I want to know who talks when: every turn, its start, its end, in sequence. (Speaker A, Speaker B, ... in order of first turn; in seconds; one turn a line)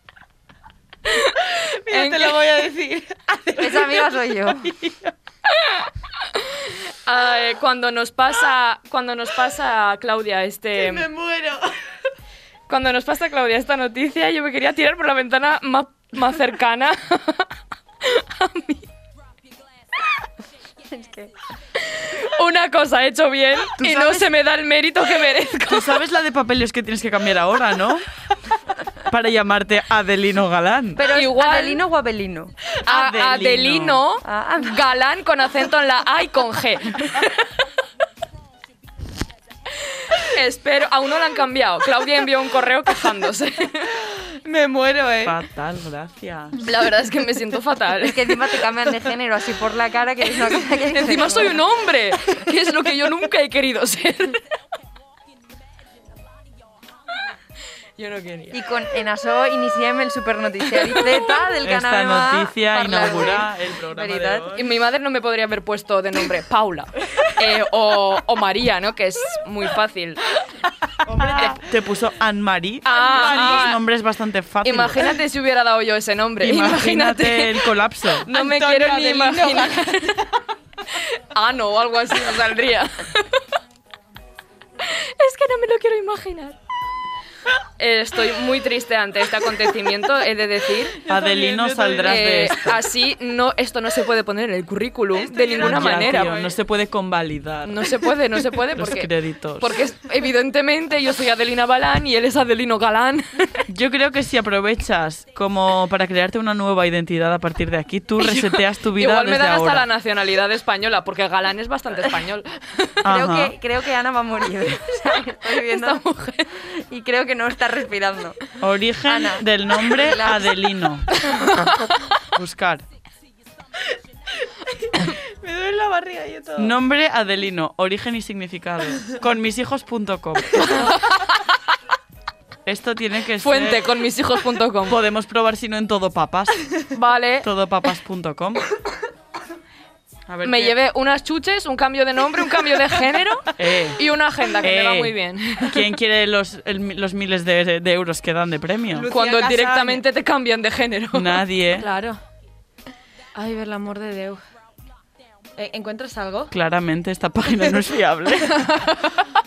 Speaker A: 1.1-2.4
Speaker B: 1.4-5.1
Speaker C: 3.6-4.7
Speaker A: 5.5-11.1
Speaker B: 10.8-11.7
Speaker A: 12.7-18.9
Speaker C: 20.9-21.3
Speaker A: 21.8-26.0
Speaker B: 23.9-24.2
Speaker D: 25.7-28.1
Speaker D: 29.1-31.1
Speaker C: 31.0-32.5
Speaker A: 31.1-31.9
Speaker A: 32.7-37.5
Speaker D: 32.8-34.0
Speaker C: 34.2-34.8
Speaker A: 39.9-44.0
Speaker B: 44.3-45.4
Speaker D: 45.2-46.6
Speaker A: 46.6-48.9
Speaker C: 48.0-51.6
Speaker A: 50.2-54.4
Speaker A: 58.0-58.7
Speaker C: 58.5-64.5
Speaker A: 60.7-61.5
Speaker D: 61.6-64.7
Speaker A: 64.5-70.3
Speaker D: 71.1-75.1
Speaker A: 71.4-71.6
Speaker A: 72.8-73.8
Speaker B: 72.9-73.7
Speaker A: 74.6-80.3
Speaker D: 76.4-78.3
Speaker B: 78.3-80.3
Speaker A: 80.9-83.4
Speaker A: 84.8-86.6
Speaker A: 87.8-91.0
Speaker B: 91.0-92.6
Speaker D: 91.1-92.8
Speaker A: 92.0-96.5
Speaker B: 95.3-96.2
Speaker D: 95.5-98.1
Speaker A: 97.7-103.7
Speaker D: 98.7-99.8
Speaker D: 103.7-109.9
Speaker A: 108.2-113.0
Speaker D: 113.0-113.5
Speaker C: 113.1-116.0
Speaker A: 115.5-116.6
Speaker C: 116.7-118.4
Speaker D: 118.6-122.8
Speaker C: 119.1-121.5
Speaker A: 121.3-122.1
Speaker B: 124.8-126.7
Speaker D: 126.6-130.8
Speaker A: 130.6-131.4
Speaker D: 132.7-133.9
Speaker A: 133.4-135.0
Speaker D: 134.9-136.7
Speaker A: 136.9-137.5
Speaker D: 137.4-138.6
Speaker D: 140.3-140.8
Speaker A: 140.4-145.9
Speaker D: 143.6-144.0
Speaker D: 144.6-149.1
Speaker B: 148.9-150.0
Speaker A: 149.1-151.4
Speaker D: 151.1-151.9
Speaker B: 151.8-152.2
Speaker B: 153.3-154.4
Speaker B: 155.6-156.5
Speaker D: 156.5-158.7
Speaker A: 158.5-159.3